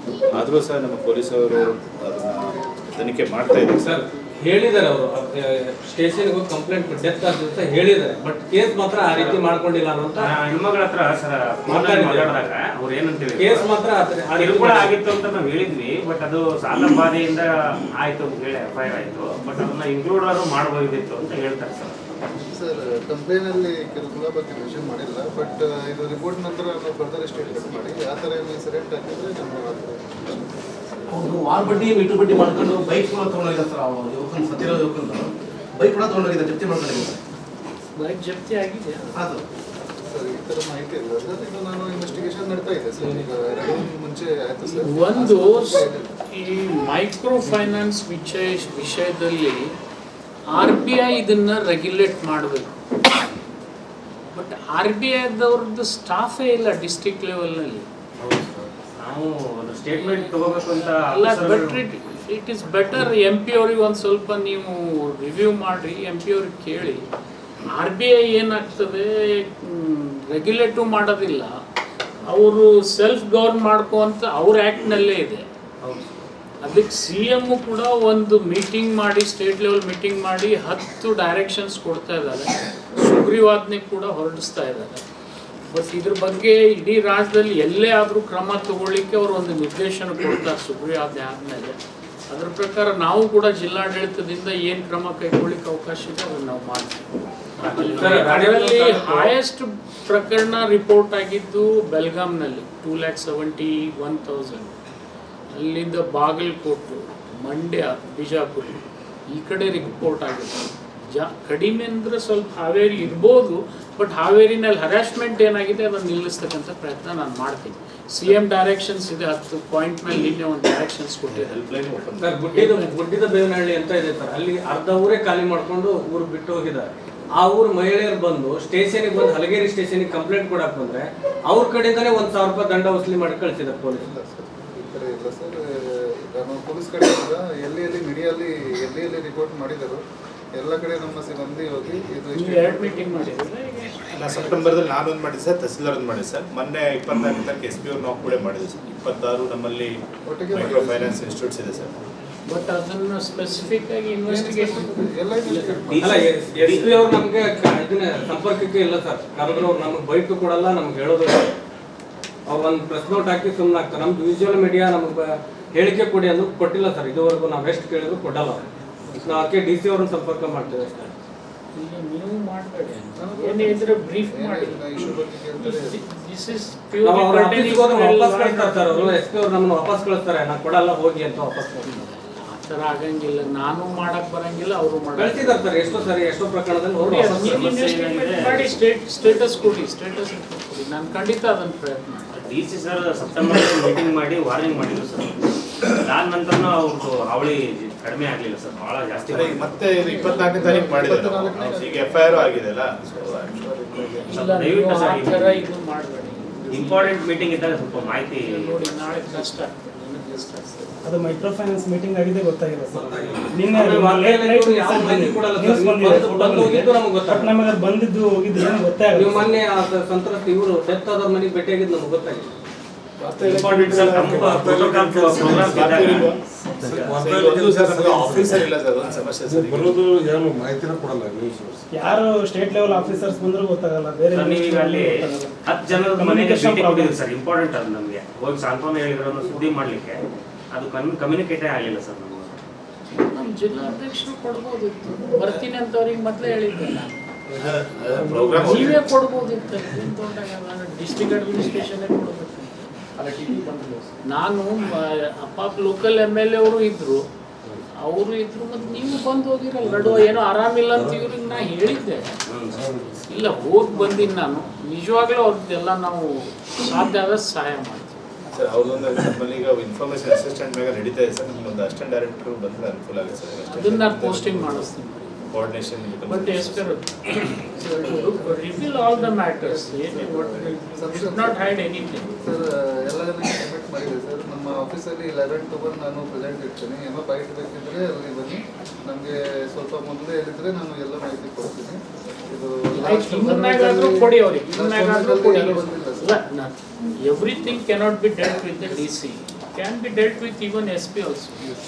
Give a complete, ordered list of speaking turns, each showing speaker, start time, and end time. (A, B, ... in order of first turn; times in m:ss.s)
0:00.3-0:04.0 A
0:03.8-0:10.3 B
0:09.1-0:09.4 C
0:10.2-0:13.7 C
0:11.7-0:12.4 B
0:13.4-0:14.9 B
0:14.4-0:17.5 C
0:18.0-0:22.0 C
0:22.5-0:30.6 D
0:31.1-0:37.2 E
0:38.0-0:39.1 F
0:39.2-0:39.4 E
0:40.1-0:46.2 D
0:43.0-0:43.3 B
0:44.7-0:49.8 F
0:50.5-0:52.8 F
0:54.3-0:57.9 F
0:58.2-0:58.7 G
0:59.0-1:01.8 C
1:00.0-1:07.0 F
1:07.7-1:11.5 F
1:12.3-1:15.5 F
1:15.8-1:16.1 C
1:16.6-1:25.0 F
1:25.7-1:31.8 F
1:32.3-1:37.1 F
1:37.6-1:44.7 F
1:37.6-1:38.3 C
1:38.0-1:39.3 B
1:45.5-2:01.6 F
2:01.3-2:02.3 A
2:02.2-2:06.9 B
2:02.5-2:03.0 F
2:07.4-2:14.0 B
2:14.0-2:15.7 D
2:16.3-2:20.0 D
2:20.6-2:23.4 D
2:22.4-2:24.8 F
2:24.1-2:29.9 A
2:30.3-2:31.2 D
2:30.5-2:31.9 A
2:32.5-2:34.9 F
2:34.3-2:36.3 D
2:35.4-2:36.2 F
2:36.0-2:41.5 B
2:42.5-2:48.6 B
2:49.1-2:49.5 D
2:49.2-2:51.2 B
2:51.8-2:54.9 F
2:53.2-2:56.0 D
2:55.6-2:59.2 F
2:57.0-3:02.0 B
3:01.8-3:05.7 F
3:05.2-3:07.6 B
3:07.0-3:12.3 F
3:07.5-3:08.7 C
3:12.3-3:15.4 C
3:15.9-3:19.8 C
3:19.3-3:23.6 A
3:19.4-3:22.7 D
3:23.3-3:24.3 D
3:24.3-3:27.0 F
3:24.3-3:25.6 C
3:26.6-3:28.2 D
3:26.7-3:28.7 C
3:28.3-3:31.0 F
3:29.0-3:29.6 D
3:30.2-3:30.6 D
3:31.0-3:39.5 H
3:32.9-3:37.5 B
3:39.1-3:42.5 B
3:43.2-3:44.8 A
3:43.2-3:44.6 H
3:43.6-3:46.3 C
3:43.9-3:46.0 G
3:45.4-3:46.4 A
3:46.8-3:48.7 G
3:47.0-3:50.0 A
3:49.4-3:51.8 G
3:51.9-3:57.2 H
3:54.3-4:00.2 C
4:00.7-4:02.6 C
4:03.3-4:07.2 F
4:07.5-4:08.8 G
4:07.6-4:09.0 A
4:08.6-4:12.9 F
4:13.6-4:14.0 G
4:14.3-4:17.2 F
4:18.0-4:22.3 F
4:19.8-4:20.2 G
4:20.9-4:21.7 G
4:22.8-4:23.1 G
4:23.3-4:28.2 F
4:28.5-4:34.9 A
4:33.7-4:35.4 F
4:35.5-4:37.0 A
4:36.3-4:42.3 F
4:37.8-4:41.7 D
4:42.4-4:56.4 D
4:53.0-5:01.8 F